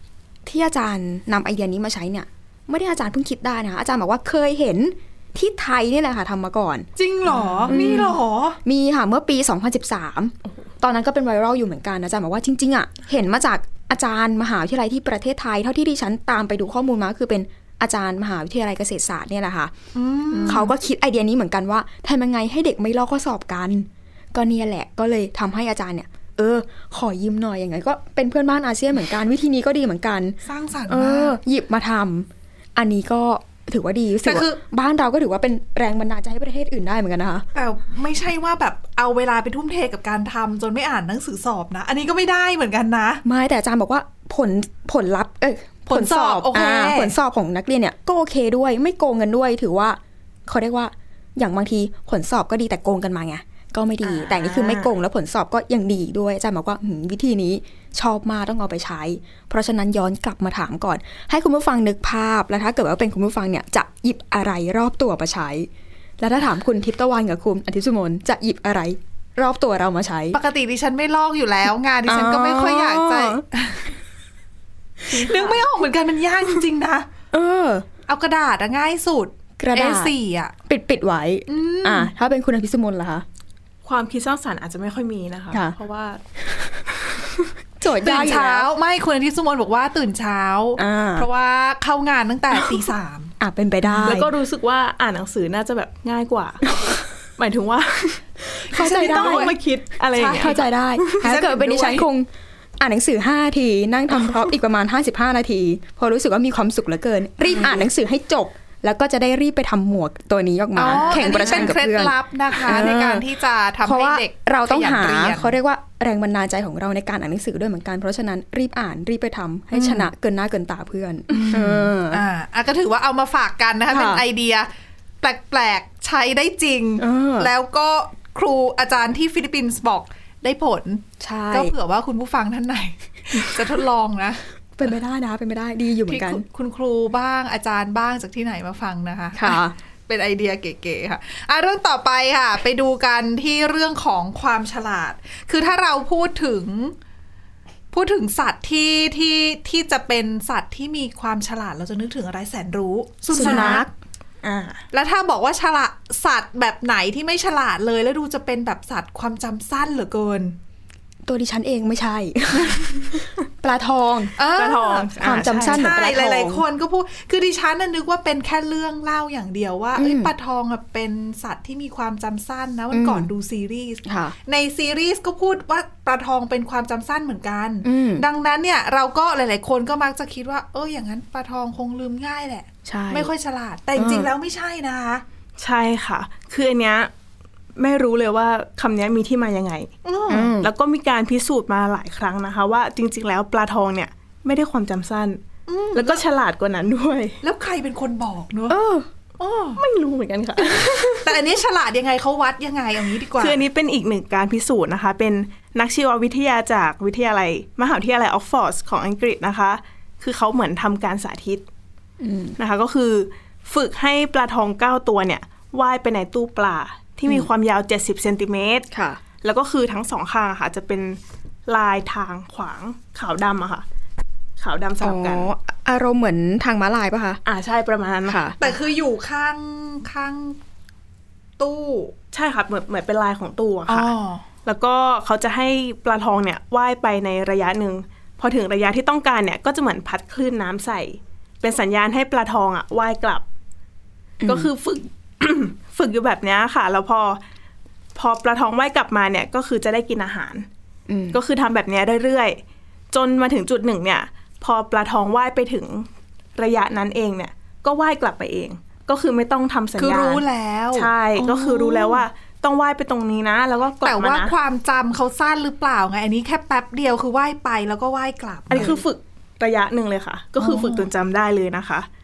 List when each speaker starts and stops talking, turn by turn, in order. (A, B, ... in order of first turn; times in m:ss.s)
0:00.4-0:06.9 A
0:07.0-0:08.6 B
0:07.4-0:07.8 C
0:07.7-0:19.7 A
0:19.9-0:20.7 B
0:20.3-0:20.6 C
0:20.4-0:37.5 A
0:30.4-0:31.4 B
0:34.2-0:34.6 B
0:37.5-0:43.2 B
0:43.2-1:10.4 A
0:45.9-0:47.1 B
0:54.0-0:54.9 C
1:10.3-1:13.9 B
1:12.0-1:13.4 A
1:15.1-1:17.1 B
1:15.1-1:15.6 C
1:17.3-1:17.8 A
1:18.1-1:20.5 B
1:19.6-1:20.1 A
1:20.7-1:23.2 A
1:21.5-1:22.1 B
1:23.8-1:26.2 C
1:27.4-1:28.7 A
1:28.0-1:34.2 B
1:30.8-1:31.3 A
1:33.4-1:34.3 A
1:34.0-1:36.8 C
1:37.4-1:38.2 C
1:38.5-1:39.5 A
1:38.7-1:39.6 B
1:38.8-1:42.0 C
1:40.1-1:40.6 B
1:40.3-1:53.2 A
1:41.2-1:42.0 B
1:50.8-1:55.5 B
1:50.9-1:51.7 C
1:53.8-2:02.2 A
1:59.7-2:00.1 B
2:01.3-2:04.7 B
2:03.9-2:04.2 A
2:05.2-2:14.4 B
2:07.0-2:07.5 A
2:11.2-2:11.7 A
2:14.8-2:16.4 A
2:16.1-2:26.9 B
2:19.4-2:19.7 A
2:27.9-2:33.9 B
2:33.3-2:33.9 A
2:33.4-2:33.8 C
2:34.4-2:34.8 C
2:34.9-2:40.6 B
2:41.2-2:44.3 A
2:44.4-3:05.2 B
2:44.6-2:45.9 C
2:45.2-2:46.6 A
2:50.0-2:50.3 A
2:52.9-2:53.3 A
2:54.0-2:54.3 A
2:57.8-2:58.2 A
3:02.8-3:03.3 A
3:04.0-3:04.3 A
3:05.6-3:07.1 C
3:07.8-3:09.9 C
3:10.0-3:10.5 B
3:10.3-3:10.7 A
3:10.6-3:15.4 C
3:15.7-3:16.2 B
3:15.9-3:17.4 C
3:17.4-3:18.8 B
3:18.7-3:19.1 A
3:19.4-3:19.8 B
3:19.8-3:21.3 C
3:21.2-3:23.6 B
3:23.4-3:31.6 C
3:32.2-3:32.6 A
3:32.6-3:38.9 C
3:38.9-3:39.2 A
3:39.4-3:43.8 C
3:44.6-3:45.5 C
3:45.0-3:47.4 A
3:47.4-3:48.8 C
3:48.2-3:48.6 A
3:48.6-3:50.6 B
3:51.6-3:52.1 B
3:52.3-3:54.1 C
3:53.9-3:54.4 B
3:54.6-4:03.4 C
4:04.4-4:04.7 A
4:04.4-4:07.4 C
4:08.1-4:10.7 C
4:11.1-4:11.4 A
4:11.3-4:12.6 C
4:13.1-4:20.4 C
4:20.0-4:21.1 B
4:20.9-4:24.5 C
4:21.4-4:22.1 A
4:24.0-4:29.0 B
4:28.7-4:32.1 C
4:30.6-4:31.1 B